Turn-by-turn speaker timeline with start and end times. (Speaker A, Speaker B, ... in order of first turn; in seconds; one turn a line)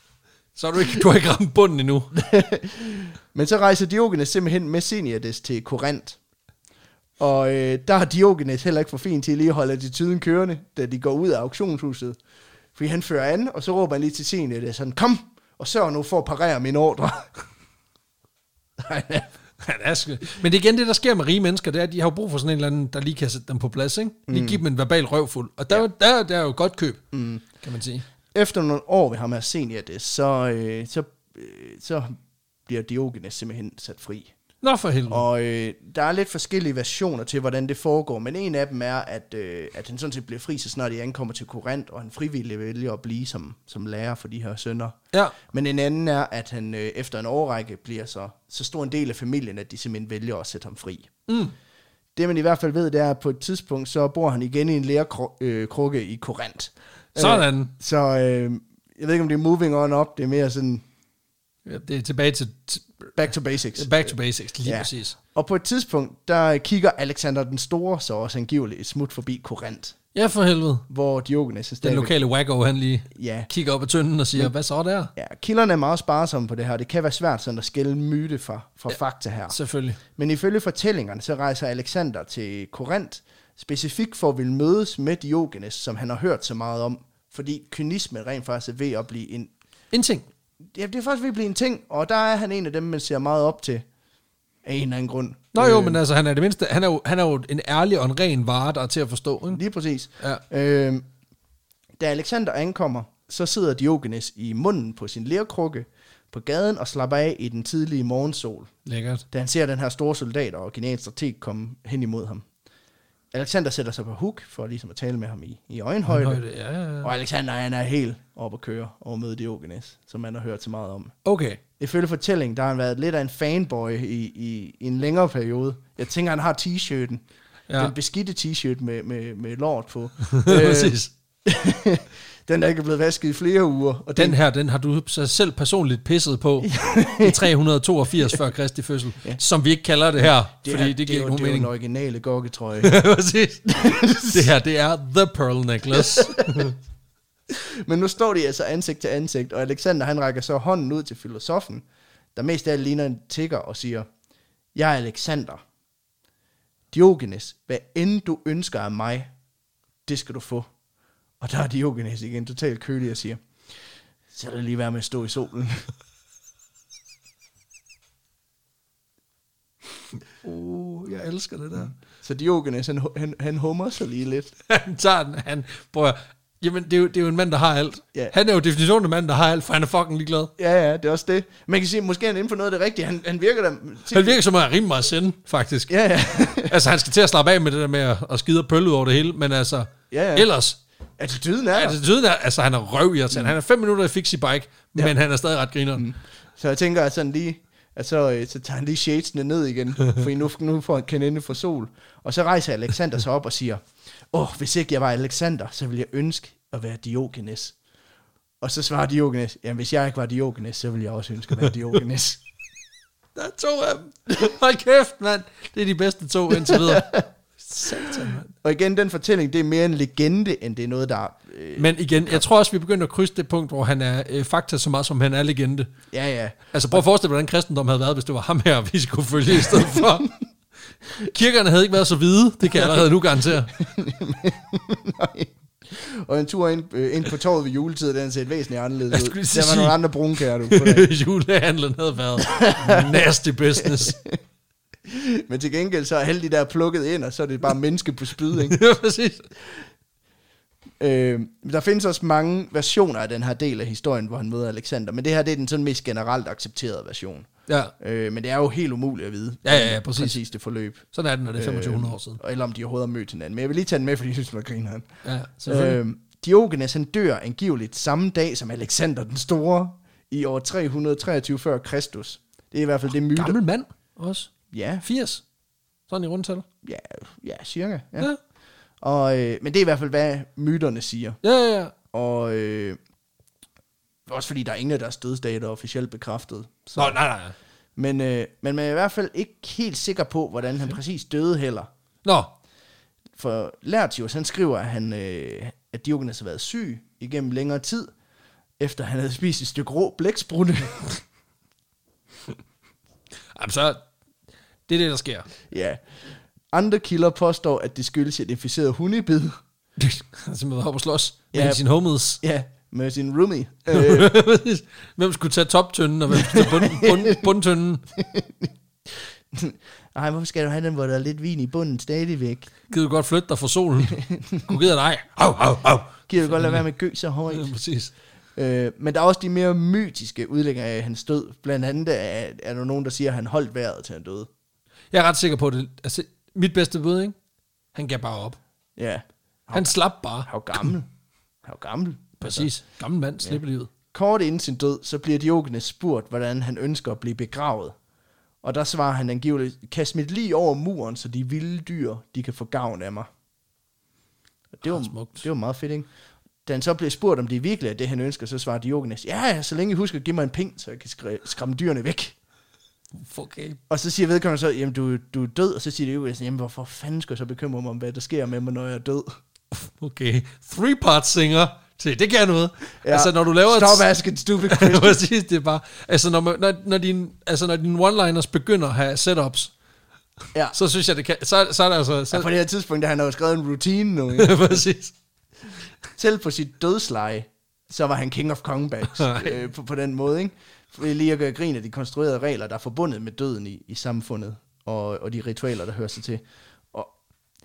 Speaker A: 0.6-2.1
Speaker B: 2.1-6.2
Speaker B: 7.2-12.2
Speaker B: 12.7-17.4
Speaker B: 18.8-19.3
Speaker A: 19.6-27.0
Speaker B: 24.3-24.6
Speaker B: 27.1-27.4
Speaker A: 27.6-28.1
Speaker B: 28.3-32.1
Speaker B: 32.7-34.3
Speaker A: 34.6-35.3
Speaker B: 35.1-51.1
Speaker A: 51.3-51.5
Speaker B: 52.1-60.8
Speaker A: 57.1-57.7
Speaker A: 61.6-63.1
Speaker B: 63.2-63.9
Speaker A: 63.8-65.2
Speaker B: 64.6-70.0
Speaker A: 70.1-70.8
Speaker B: 70.9-72.1
Speaker A: 71.8-75.1
Speaker B: 73.1-73.5
Speaker B: 75.2-79.6
Speaker A: 79.5-80.0
Speaker B: 80.1-89.5
Speaker A: 89.9-90.3
Speaker B: 90.7-93.8
Speaker B: 94.6-96.0
Speaker A: 95.5-99.6
Speaker B: 99.5-101.0
Speaker B: 102.0-108.7
Speaker A: 108.9-109.2
Speaker B: 109.3-112.5
Speaker B: 113.3-116.4
Speaker A: 116.1-117.1
Speaker B: 117.0-121.1
Speaker A: 121.2-121.6
Speaker B: 121.8-127.2
Speaker B: 127.8-134.4
Speaker A: 130.3-131.1
Speaker A: 134.2-141.7
Speaker B: 136.6-137.5
Speaker B: 140.6-142.9
Speaker A: 142.8-146.7
Speaker B: 143.7-144.5
Speaker B: 145.9-146.7
Speaker B: 147.5-154.1
Speaker B: 154.7-155.6
Speaker B: 156.9-159.3
Speaker B: 160.1-160.7
Speaker B: 161.4-163.4
Speaker B: 164.3-165.9
Speaker A: 170.4-171.9
Speaker B: 172.2-174.5
Speaker A: 174.7-180.5
Speaker B: 180.6-184.4
Speaker A: 184.1-185.9
Speaker B: 185.9-186.8
Speaker A: 186.6-190.8
Speaker B: 190.1-190.5
Speaker B: 191.2-192.0
Speaker A: 191.7-196.1
Speaker B: 193.3-193.6
Speaker B: 195.9-207.7
Speaker B: 208.6-212.4
Speaker A: 213.4-218.5
Speaker B: 216.6-217.2
Speaker B: 218.6-222.4
Speaker A: 221.8-226.0
Speaker B: 226.1-227.0
Speaker A: 226.7-230.3
Speaker B: 229.7-230.0
Speaker A: 231.1-233.9
Speaker B: 232.7-233.0
Speaker B: 233.7-241.1
Speaker A: 239.1-244.2
Speaker B: 242.4-243.3
Speaker B: 243.8-244.4
Speaker B: 245.1-248.8
Speaker A: 248.6-249.5
Speaker B: 251.0-257.5
Speaker A: 257.7-257.9
Speaker B: 258.0-261.1
Speaker A: 259.6-260.4
Speaker A: 261.1-262.4
Speaker B: 261.6-265.1
Speaker A: 265.2-266.0
Speaker B: 265.7-273.6
Speaker A: 273.3-274.5
Speaker B: 274.7-275.1
Speaker A: 275.0-275.4
Speaker A: 276.1-276.6
Speaker B: 276.8-278.3
Speaker B: 279.0-281.4
Speaker A: 281.4-281.9
Speaker B: 282.1-283.0
Speaker B: 284.3-287.2
Speaker A: 287.0-287.6
Speaker B: 287.9-291.9
Speaker A: 292.2-292.5
Speaker B: 293.4-298.1
Speaker B: 298.8-301.1
Speaker A: 303.6-304.0
Speaker A: 304.9-305.5
Speaker B: 305.7-306.0
Speaker B: 306.7-309.6
Speaker A: 310.0-312.4
Speaker B: 311.5-311.8
Speaker B: 312.4-314.3
Speaker A: 313.9-318.0
Speaker B: 316.3-317.5
Speaker B: 318.1-322.7
Speaker A: 322.9-326.8
Speaker B: 324.1-324.7
Speaker B: 326.3-327.7
Speaker A: 327.5-328.1
Speaker B: 328.6-334.5
Speaker A: 335.1-337.3
Speaker A: 337.9-338.6
Speaker B: 339.0-341.1
Speaker A: 339.7-340.5
Speaker B: 341.6-342.7
Speaker A: 342.4-343.9
Speaker B: 344.1-347.9
Speaker B: 348.6-353.3
Speaker B: 354.8-356.1
Speaker A: 354.8-355.4
Speaker B: 356.6-362.3
Speaker A: 363.2-363.8
Speaker B: 363.9-369.3
Speaker A: 369.7-374.1
Speaker B: 373.0-375.2
Speaker A: 374.6-379.7
Speaker A: 380.7-382.5
Speaker B: 382.3-384.8
Speaker A: 384.3-385.1
Speaker B: 386.2-397.1
Speaker A: 389.1-389.6